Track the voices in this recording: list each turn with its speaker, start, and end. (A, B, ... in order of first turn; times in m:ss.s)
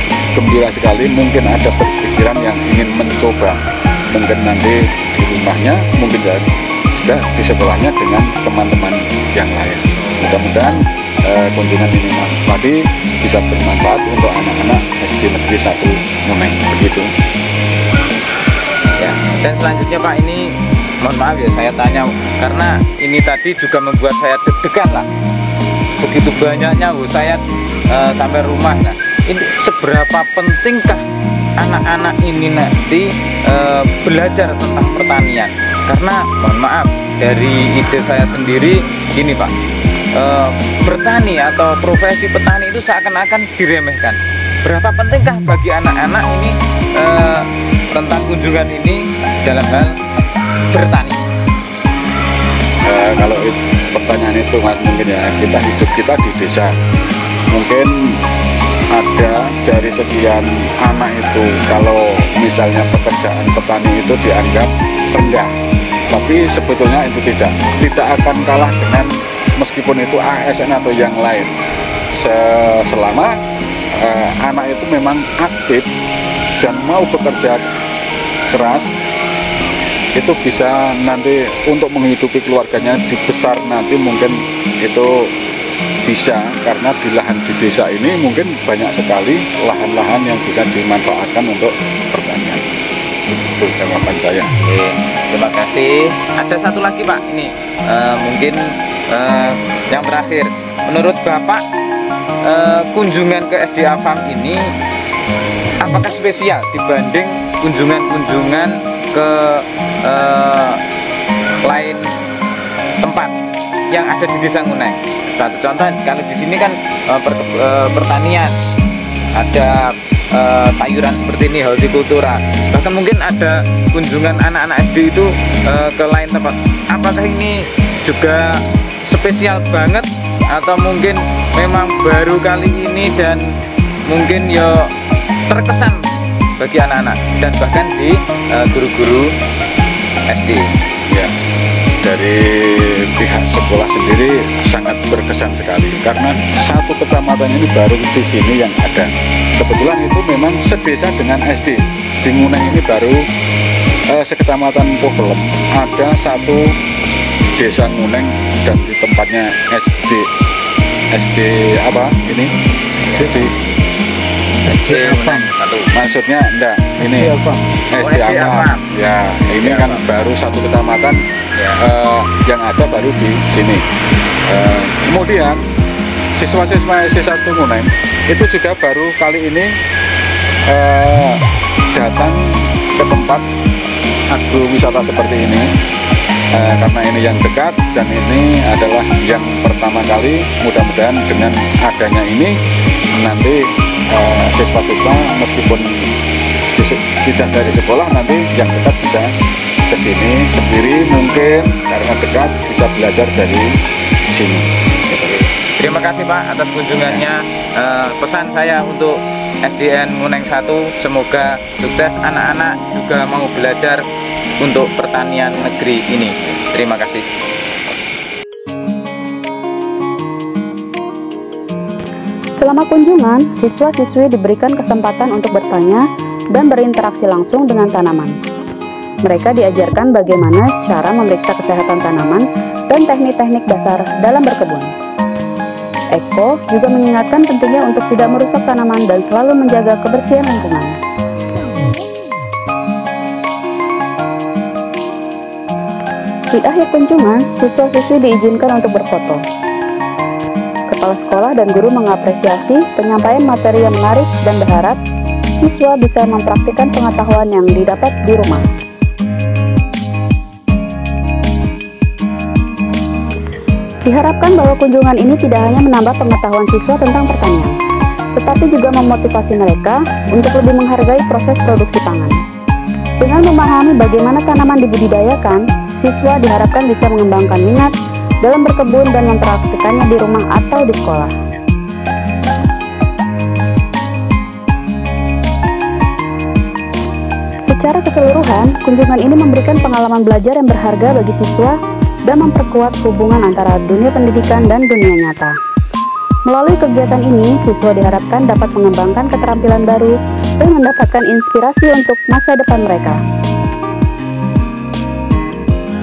0:00.3-0:17.1 A
0:10.1-0:10.4 B
0:19.0-0:25.1 B
0:26.0-0:31.0 B
0:31.6-0:39.5 B
0:40.1-0:50.0 B
0:50.7-0:51.2 B
0:52.8-0:56.8 A
0:57.5-0:58.2 A
0:58.9-1:05.5 A
1:06.1-1:11.6 A
1:12.1-1:13.4 A
1:13.9-1:15.9 A
1:16.6-1:17.7 A
1:18.5-1:18.9 A
1:20.2-1:25.3 A
1:26.0-1:32.7 A
1:33.3-1:34.6 A
1:34.6-1:41.6 B
1:42.4-1:44.7 B
1:45.8-1:50.8 B
1:51.6-1:52.1 B
1:53.0-1:53.3 B
1:53.9-1:58.6 B
1:59.4-2:13.5 B
2:14.1-2:14.9 B
2:15.5-2:16.1 B
2:16.6-2:19.3 B
2:20.3-2:20.7 B
2:21.1-2:21.4 A
2:22.0-2:33.3 A
2:34.1-2:36.8 A
2:37.6-2:40.3 A
2:41.1-2:42.6 A
2:43.0-2:43.4 B
2:43.2-2:43.6 A
2:44.7-2:45.9 B
2:45.9-2:51.2 A
2:48.0-2:48.9 B
2:49.5-2:50.0 B
2:51.6-2:51.9 B
2:51.8-2:53.8 A
2:54.4-2:55.6 A
2:56.4-2:59.8 A
3:00.7-3:03.4 A
3:04.3-3:05.7 A
3:06.5-3:12.6 A
3:13.1-3:16.1 A
3:16.8-3:19.3 A
3:19.9-3:23.8 A
3:24.3-3:24.7 A
3:25.1-3:34.0 B
3:34.6-3:37.2 B
3:42.6-3:48.4 C
3:49.2-3:54.9 C
3:56.2-4:01.0 C
4:06.5-4:09.4 C
4:10.9-4:15.0 C
4:15.6-4:18.6 C
4:24.0-4:27.8 C
4:28.4-4:32.4 C
4:33.2-4:41.3 C
4:47.7-4:51.8 C
4:52.3-4:55.6 C
4:56.5-5:03.2 C